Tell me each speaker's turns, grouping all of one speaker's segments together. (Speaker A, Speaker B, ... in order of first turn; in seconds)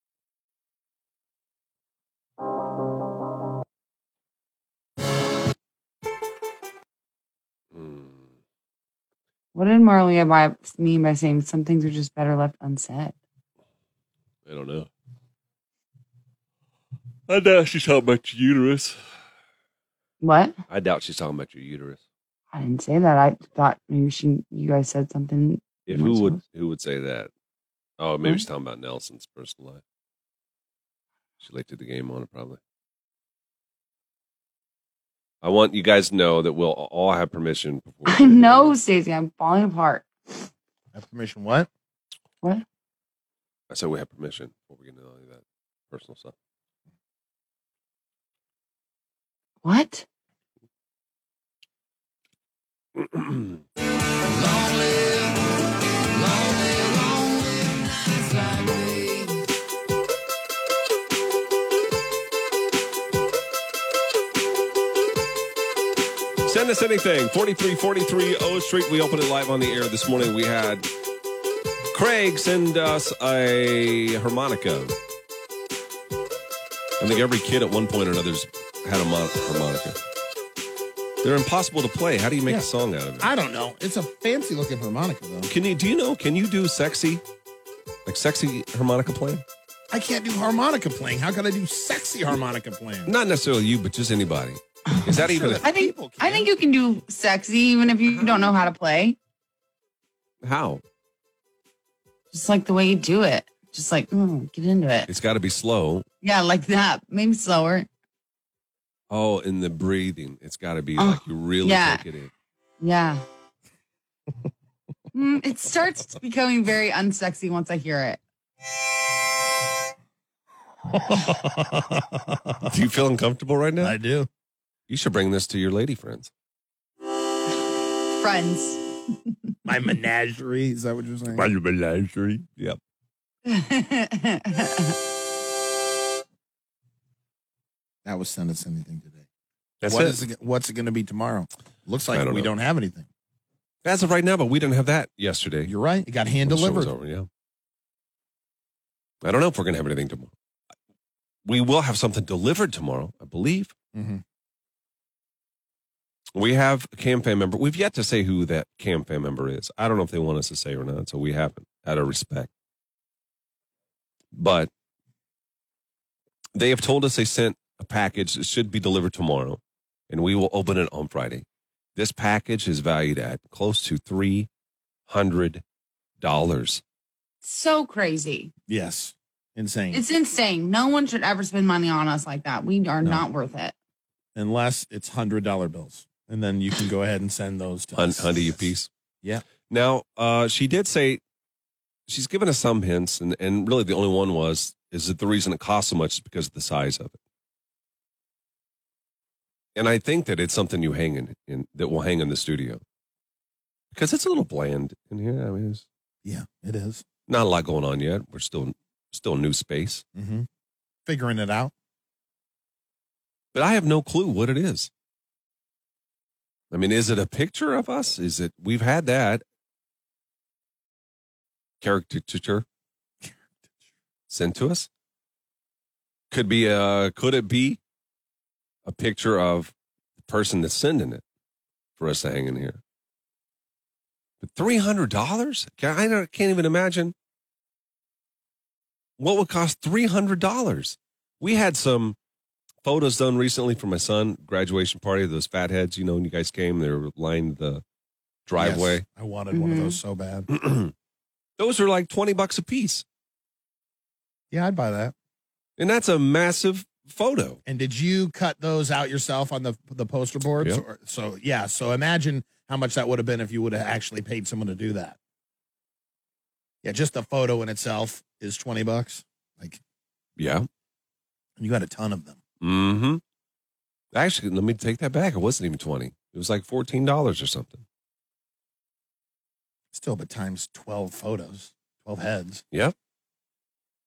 Speaker A: 7.7-8.4, 14.4-14.9, 17.3-19.0, 20.7-22.0, 25.9-27.3, 28.0-29.8, 31.4-32.6, 35.4-38.7, 43.7-46.3, 53.0-53.6, 66.5-70.9, 71.9-75.0, 77.0-80.0, 81.2-83.3, 85.5-87.2, 88.0-89.4, 93.0-95.6, 100.4-100.8, 105.1-106.0, 109.1-112.3, 122.7-124.0, 124.9-126.3, 131.3-132.8, 139.8-140.2, 142.1-142.5, 143.8-145.7, 146.4-147.3, 149.2-150.3, 151.4-153.7, 156.3-162.5, 164.3-164.7, 166.6-171.4, 171.9-174.5, 175.1-175.6, 176.2-176.8, 187.9-188.9, 189.6-191.2, 192.1-197.2, 199.7-202.8, 203.9-205.9, 207.3-210.1, 213.5-214.9, 216.7-219.4, 221.8-222.7, 224.3-224.9, 226.3-227.8, 228.8-231.2, 232.0-232.8, 234.4-237.1, 239.2-242.2, 242.8-247.8, 248.4-249.0, 250.5-250.9, 251.6-253.1, 255.8-257.6, 270.4-270.7, 272.6-273.2, 274.1-277.9
Speaker B: 9.5-13.2, 20.2-20.6, 22.5-26.4, 38.0-40.1, 49.6-50.0, 54.4-55.3, 56.3-59.3, 95.6-99.2, 102.3-105.1, 106.2-107.9, 111.0-112.0, 112.8-113.2, 115.1-118.2, 128.1-129.3, 133.4-135.0, 177.4-178.5, 179.9-183.7, 249.5-250.0
Speaker C: 40.9-41.7, 83.2-85.5, 89.9-93.1, 95.1-96.5, 120.9-122.7, 123.8-124.3, 129.7-131.5, 138.1-139.2, 139.8-143.1, 145.6-146.9, 153.9-154.2, 178.7-180.0, 184.3-188.7, 206.2-207.1, 210.1-210.5, 211.1-211.7, 248.6-250.5, 254.5-255.1, 257.7-265.2, 266.8-269.8, 271.6-272.4, 279.9-282.6